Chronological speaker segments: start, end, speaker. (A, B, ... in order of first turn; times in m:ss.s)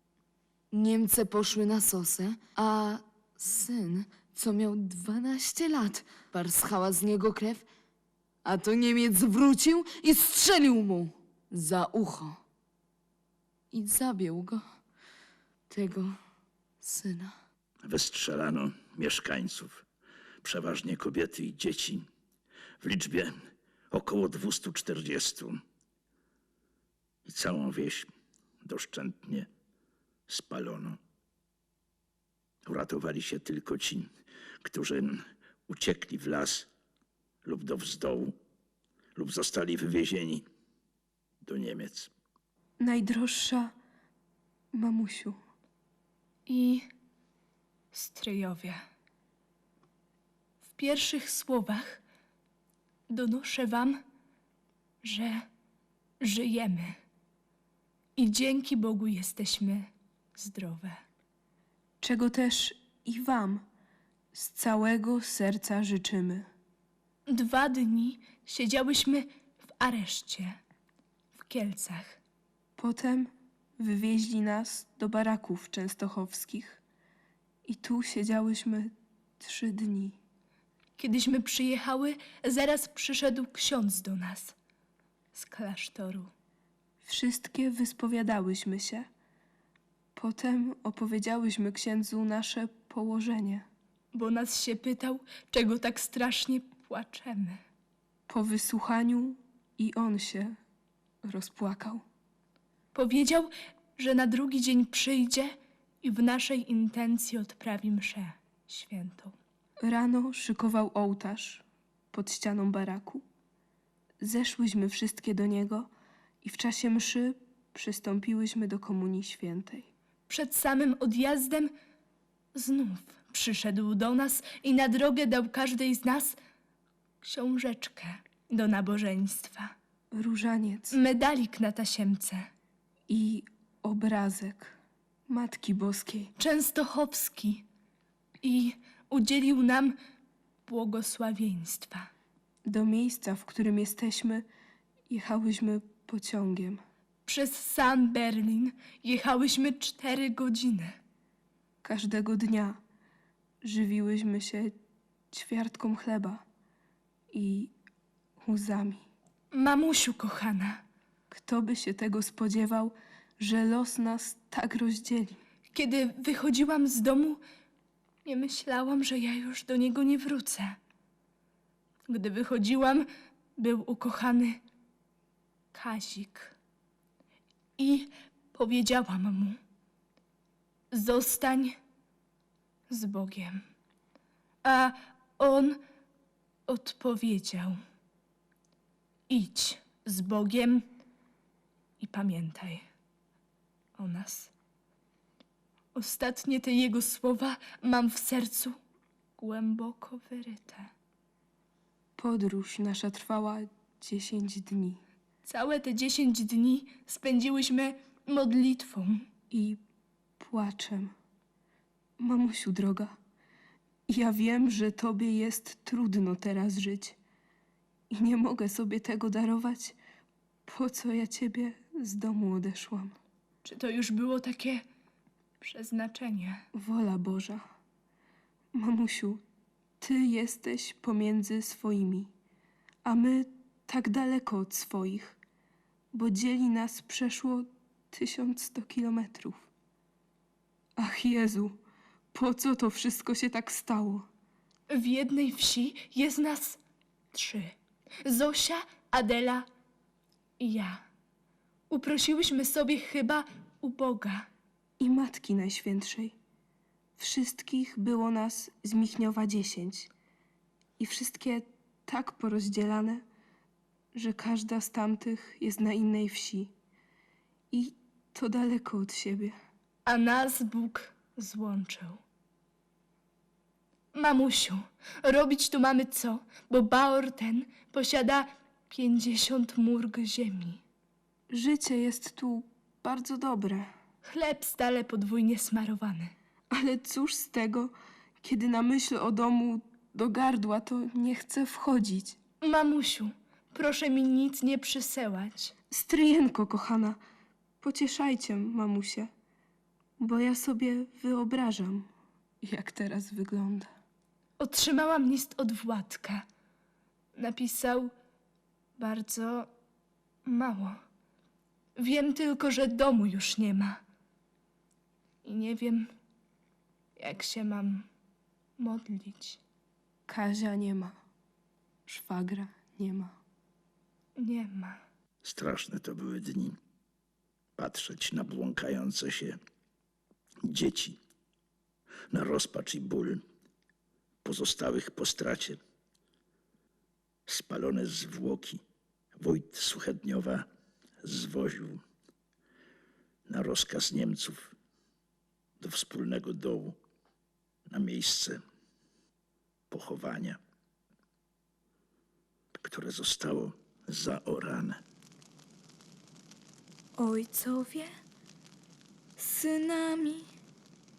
0:00.7-0:07.6 A
0:08.4-0:12.4 A
0:13.7-0:14.6 A
0:15.7-0:16.2 A
0:16.8-0:17.4 A
0:17.8-0:19.8 B
0:20.4-0:22.0 B
0:22.8-0:23.4 B
0:23.9-0:25.6 B
0:27.2-0:28.1 B
0:28.6-0:29.5 B
0:30.3-0:31.0 B
0:32.6-0:34.1 B
0:34.6-0:36.7 B
0:37.4-0:38.4 B
0:39.1-0:40.4 B
0:41.4-0:42.1 B
0:42.8-0:43.7 C
0:44.7-0:45.4 C
0:46.5-0:46.9 D
0:47.9-0:48.8 D
0:50.8-0:52.0 D
0:53.1-0:54.0 D
0:55.0-0:55.5 D
0:56.2-0:57.0 D
0:58.2-1:01.0 D
1:02.0-1:03.6 C
1:04.3-1:06.5 C
1:07.3-1:10.6 D
1:11.4-1:12.2 D
1:12.8-1:16.8 C
1:17.6-1:20.2 C
1:21.0-1:24.5 D
1:25.3-1:26.3 D
1:27.0-1:29.1 C
1:30.2-1:33.6 C
1:34.1-1:37.6 D
1:38.3-1:40.6 C
1:41.2-1:42.0 C
1:42.9-1:49.4 D
1:49.8-1:53.2 C
1:54.2-1:55.9 C
1:56.4-1:59.9 C
2:00.3-2:01.7 D
2:02.6-2:06.4 D
2:07.2-2:09.7 D
2:10.1-2:10.9 C
2:10.9-2:12.5 D
2:13.1-2:14.7 C
2:15.3-2:16.3 C
2:16.4-2:17.6 D
2:18.4-2:20.0 D
2:20.6-2:22.1 D
2:22.6-2:24.5 C
2:25.1-2:26.8 C
2:27.3-2:31.0 D
2:31.8-2:32.8 C
2:33.6-2:34.8 C
2:35.3-2:36.4 C
2:37.3-2:37.7 C
2:38.4-2:39.0 C
2:39.5-2:40.8 D
2:41.3-2:45.4 C
2:45.7-2:47.4 D
2:48.2-2:50.8 D
2:52.1-2:54.6 D
2:55.7-2:56.6 D
2:57.8-2:59.6 D
3:00.9-3:01.8 D
3:02.9-3:03.6 D
3:04.6-3:05.8 D
3:06.7-3:07.8 D
3:09.3-3:10.9 D
3:12.0-3:12.8 D
3:14.0-3:14.5 D
3:15.9-3:18.8 D
3:19.4-3:20.9 D
3:22.2-3:25.0 C
3:25.4-3:29.2 D
3:29.5-3:29.8 C
3:30.4-3:31.1 C
3:32.2-3:33.1 C
3:34.1-3:37.2 C
3:38.1-3:40.0 C
3:40.6-3:43.2 C
3:43.6-3:44.8 D
3:45.6-3:46.6 D
3:46.7-3:47.6 C
3:48.7-3:49.4 C
3:50.0-3:52.3 C
3:53.0-3:55.4 C
3:56.1-3:59.7 C
4:01.0-4:01.8 C
4:02.3-4:04.2 C
4:04.9-4:06.8 D
4:07.3-4:09.7 D
4:10.6-4:11.1 D
4:11.9-4:14.5 D
4:15.0-4:16.3 C
4:17.2-4:20.1 C
4:21.0-4:23.2 C
4:24.1-4:26.7 C
4:27.7-4:29.6 C
4:30.1-4:32.2 D
4:34.1-4:40.8 D
4:41.5-4:43.9 C
4:44.2-4:46.3 D
4:46.7-4:52.4 C
4:52.6-4:55.7 D
4:55.9-4:57.2 C
4:57.8-4:59.3 C
5:00.2-5:02.1 C
5:02.6-5:03.9 C
5:04.6-5:06.4 D
5:07.4-5:08.1 D
5:09.0-5:09.7 D
5:10.4-5:11.0 D
5:12.0-5:14.0 D
5:15.4-5:16.1 D
5:17.2-5:18.1 D
5:18.8-5:19.6 D
5:20.3-5:21.2 C
5:22.1-5:23.4 C
5:24.4-5:25.0 D
5:25.4-5:26.8 B
5:27.8-5:29.6 B
5:30.6-5:31.2 B
5:32.3-5:33.4 B
5:34.4-5:35.8 B
5:37.5-5:38.8 B
5:39.4-5:40.7 B
5:41.2-5:42.0 B
5:43.5-5:44.7 B
5:45.8-5:47.0 B
5:47.9-5:48.6 B
5:49.9-5:50.6 B
5:52.8-5:55.0 B
5:57.2-5:58.1 E
5:59.4-6:00.5 E